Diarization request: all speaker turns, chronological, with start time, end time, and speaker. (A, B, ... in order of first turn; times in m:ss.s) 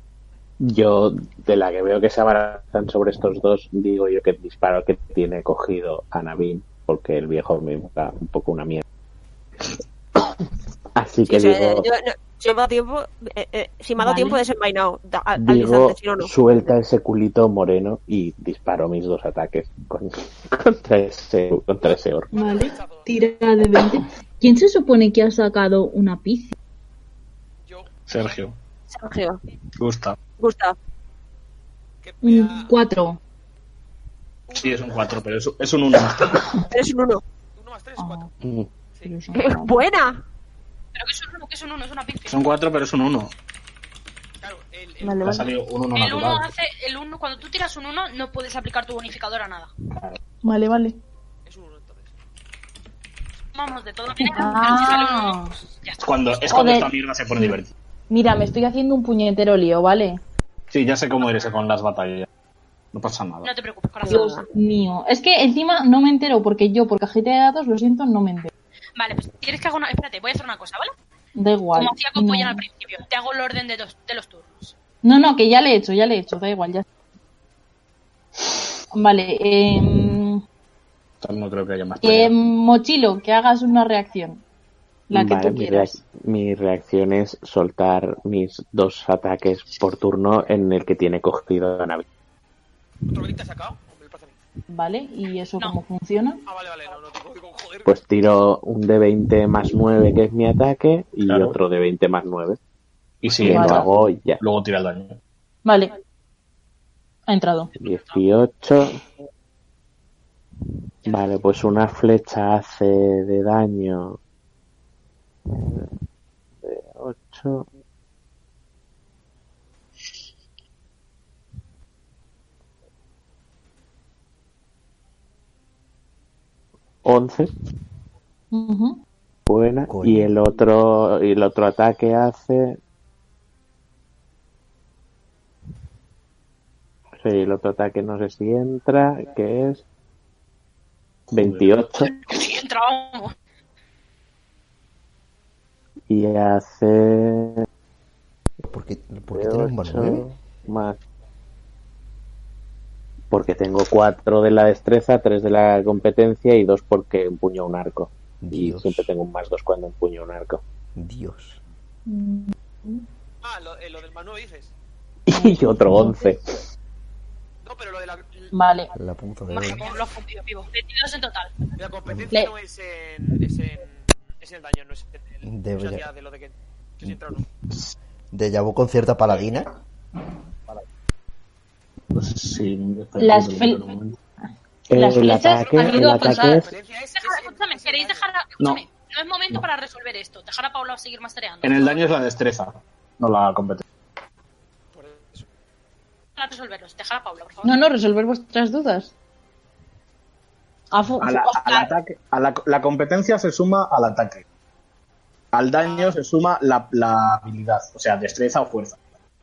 0:00.6-0:08.8 A
0:11.0-0:11.9 A
0:11.2-0:16.3 B
0:14.0-0:14.4 C
0:15.4-0:22.3 A
0:21.8-0:23.6 D
0:22.3-0:26.5 C
0:27.6-0:28.4 D
0:28.1-0:28.5 E
0:28.9-0:29.4 B
0:29.8-0:30.2 E
0:30.4-0:30.8 B
0:32.0-0:32.7 D
0:32.2-0:33.2 C
0:34.5-0:35.2 D
0:34.6-0:36.6 E
0:36.7-0:37.2 B
0:37.6-0:38.3 D
0:38.0-0:38.3 C
0:38.4-0:38.7 A
0:39.0-0:39.8 C
0:39.3-0:40.2 B
0:40.9-0:42.6 F
0:42.3-0:43.3 E
0:44.4-0:45.4 D
0:45.0-0:45.5 C
0:45.2-0:46.5 E
0:45.9-0:49.7 F
0:49.9-0:50.2 E
0:50.4-0:51.0 C
0:51.4-0:52.1 D
0:53.5-0:56.2 F
0:54.2-0:55.5 C
0:56.0-0:57.7 E
0:56.5-0:57.5 C
0:58.1-1:00.2 C
1:00.7-1:02.3 E
1:01.2-1:01.6 D
1:02.9-1:03.5 E
1:03.4-1:04.4 F
1:04.0-1:04.4 B
1:04.0-1:08.5 C
1:09.0-1:10.9 F
1:11.4-1:12.6 C
1:11.7-1:14.7 F
1:15.0-1:16.8 C
1:18.9-1:20.4 C
1:21.2-1:22.3 E
1:22.0-1:24.4 C
1:25.1-1:26.0 C
1:25.1-1:32.0 A
1:33.1-1:34.4 D
1:34.7-1:36.4 C
1:36.4-1:38.0 D
1:37.8-1:42.6 A
1:41.2-1:41.6 E
1:43.2-1:45.2 E
1:43.3-1:44.4 A
1:43.5-1:43.9 C
1:45.6-1:45.9 C
1:47.3-1:47.7 C
1:47.8-1:48.2 F
1:47.8-1:49.0 A
1:51.0-1:54.2 A
1:55.5-1:55.9 A
1:56.6-1:57.7 A
2:07.0-2:07.5 A
2:08.5-2:09.0 C
2:09.5-2:12.8 A
2:09.9-2:10.3 G
2:17.2-2:19.8 A
2:21.3-2:22.1 A
2:21.3-2:21.8 E
2:22.0-2:23.3 F
2:26.1-2:27.6 A
2:28.6-2:30.2 G
2:29.3-2:31.0 A
2:33.3-2:40.6 A
2:38.4-2:39.1 G
2:40.9-2:41.6 G
2:42.1-2:43.0 C
2:43.4-2:44.7 D
2:45.3-2:46.4 A
2:45.3-2:46.3 C
2:47.6-2:48.5 D
2:48.5-2:48.9 C
2:48.9-2:49.8 G
2:49.5-2:51.5 F
2:49.6-2:50.0 D
2:51.8-2:57.5 D
2:55.4-2:56.0 G
2:58.3-2:59.7 G
3:02.1-3:04.2 E
3:03.2-3:03.9 C
3:04.9-3:06.7 A
3:04.9-3:06.6 C
3:05.8-3:08.3 D
3:07.1-3:12.1 F
3:08.6-3:08.8 E
3:11.6-3:13.8 E
3:14.9-3:15.4 D
3:16.4-3:17.7 F
3:17.6-3:19.1 C
3:20.9-3:21.9 C
3:21.2-3:24.4 E
3:25.5-3:29.0 E
3:25.8-3:26.2 D